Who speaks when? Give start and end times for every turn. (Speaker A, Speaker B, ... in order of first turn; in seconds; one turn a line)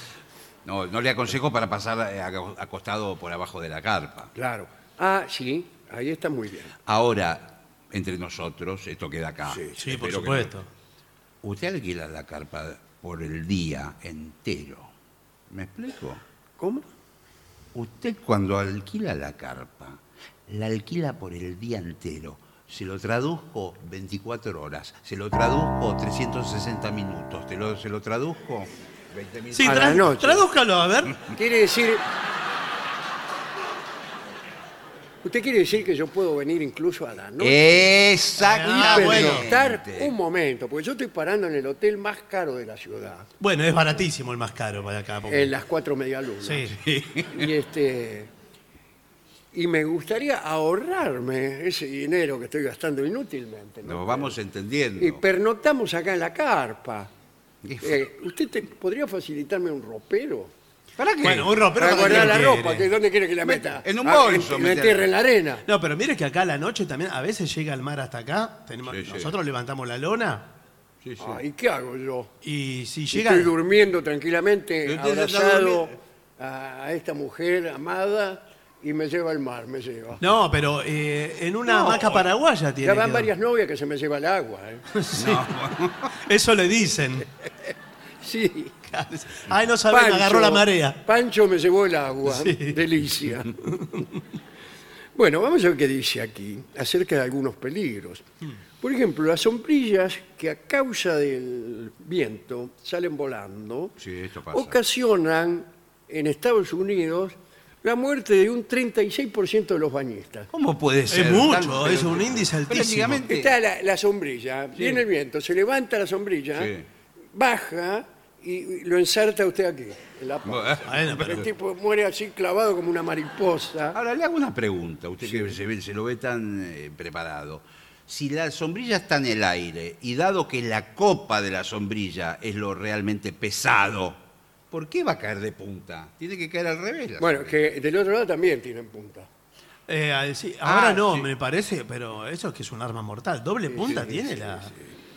Speaker A: 0.6-4.3
Speaker B: 4.3-6.7
Speaker A: 6.8-10.5
Speaker B: 9.5-9.8
Speaker C: 9.8-10.7
Speaker A: 11.4-14.9
Speaker A: 15.5-16.2
Speaker B: 16.6-16.9
Speaker A: 17.7-30.0
Speaker C: 29.5-31.1
Speaker B: 29.6-30.4
Speaker B: 31.3-32.0
Speaker B: 35.2-37.9
Speaker A: 37.4-40.1
Speaker C: 38.4-39.5
Speaker B: 38.7-43.3
Speaker C: 43.4-45.5
Speaker B: 45.3-46.7
Speaker C: 46.4-46.8
Speaker A: 46.7-47.5
Speaker B: 47.3-48.3
Speaker B: 49.5-54.3
Speaker A: 53.8-55.2
Speaker B: 55.0-57.1
Speaker A: 57.6-58.0
Speaker B: 57.8-60.5
Speaker A: 61.0-62.4
Speaker C: 61.2-62.9
Speaker B: 61.8-65.7
Speaker A: 63.4-65.1
Speaker C: 65.7-70.5
Speaker A: 68.8-69.3
Speaker A: 71.0-71.4
Speaker B: 71.2-72.3
Speaker C: 72.4-73.5
Speaker B: 73.1-80.2
Speaker A: 74.8-75.9
Speaker C: 80.2-83.3
Speaker A: 81.7-82.2
Speaker B: 82.8-84.8
Speaker C: 84.9-85.5
Speaker A: 85.1-86.1
Speaker C: 86.2-87.3
Speaker B: 88.2-88.8
Speaker C: 88.9-91.0
Speaker B: 89.9-93.6
Speaker C: 92.3-92.8
Speaker C: 93.7-94.0
Speaker B: 95.2-98.3
Speaker B: 98.8-104.0
Speaker A: 104.0-104.8
Speaker B: 104.5-110.5
Speaker A: 110.5-113.5
Speaker C: 111.1-113.2
Speaker B: 113.3-116.7
Speaker A: 116.5-116.8
Speaker B: 117.3-124.0
Speaker A: 120.5-120.9
Speaker C: 120.9-121.5
Speaker A: 123.9-134.2
Speaker B: 125.2-125.5
Speaker A: 134.7-137.6
Speaker B: 137.2-139.3
Speaker C: 139.9-144.7
Speaker A: 140.6-141.3
Speaker B: 143.7-144.8